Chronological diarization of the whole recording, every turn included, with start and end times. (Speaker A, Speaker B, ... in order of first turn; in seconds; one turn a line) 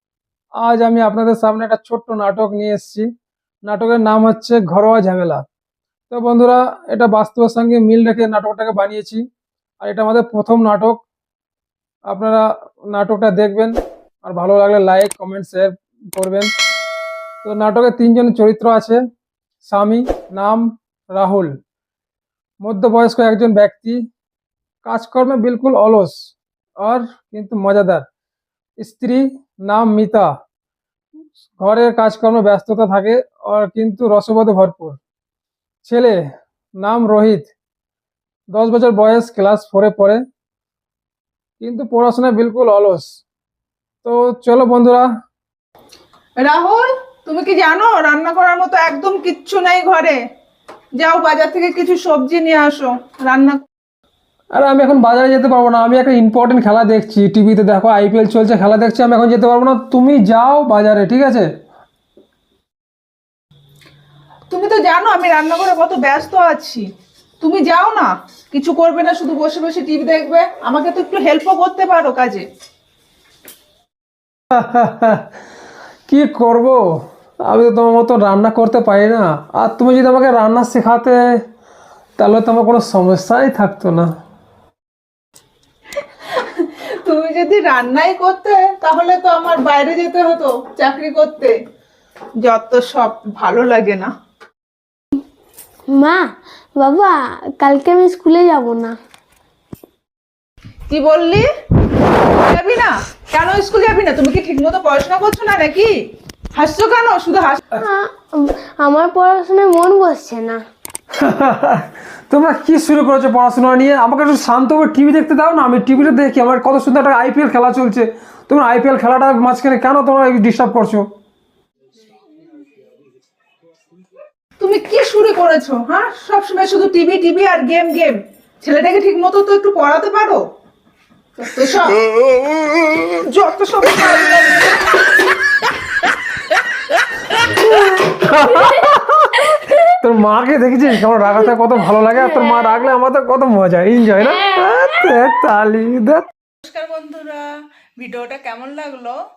Speaker A: 0.6-3.1
Speaker A: 3.7-5.4
Speaker A: 6.1-9.2
Speaker A: 9.8-11.0
Speaker A: 12.1-16.5
Speaker A: 17.4-19.0
Speaker A: 19.6-21.5
Speaker A: 22.6-24.0
Speaker A: 24.8-28.0
Speaker A: 28.8-30.3
Speaker A: 31.6-35.0
Speaker A: 35.9-36.2
Speaker A: 36.8-37.5
Speaker A: 38.5-40.2
Speaker A: 41.6-43.2
Speaker A: 44.0-45.1
Speaker B: 46.4-50.2
Speaker B: 51.0-53.6
Speaker A: 54.5-61.5
Speaker B: 64.5-66.9
Speaker B: 67.4-72.5
Speaker A: 74.5-75.3
Speaker A: 76.1-76.8
Speaker A: 77.5-81.2
Speaker A: 82.2-84.1
Speaker B: 86.3-91.6
Speaker B: 92.4-94.1
Speaker C: 95.9-99.0
Speaker B: 100.9-101.5
Speaker B: 102.3-105.9
Speaker B: 106.6-107.6
Speaker C: 107.8-110.6
Speaker A: 111.2-121.1
Speaker B: 124.6-130.4
Speaker B: 131.4-132.1
Speaker B: 133.2-135.0
Speaker A: 137.3-146.2
Speaker B: 146.6-147.5
Speaker B: 148.0-149.2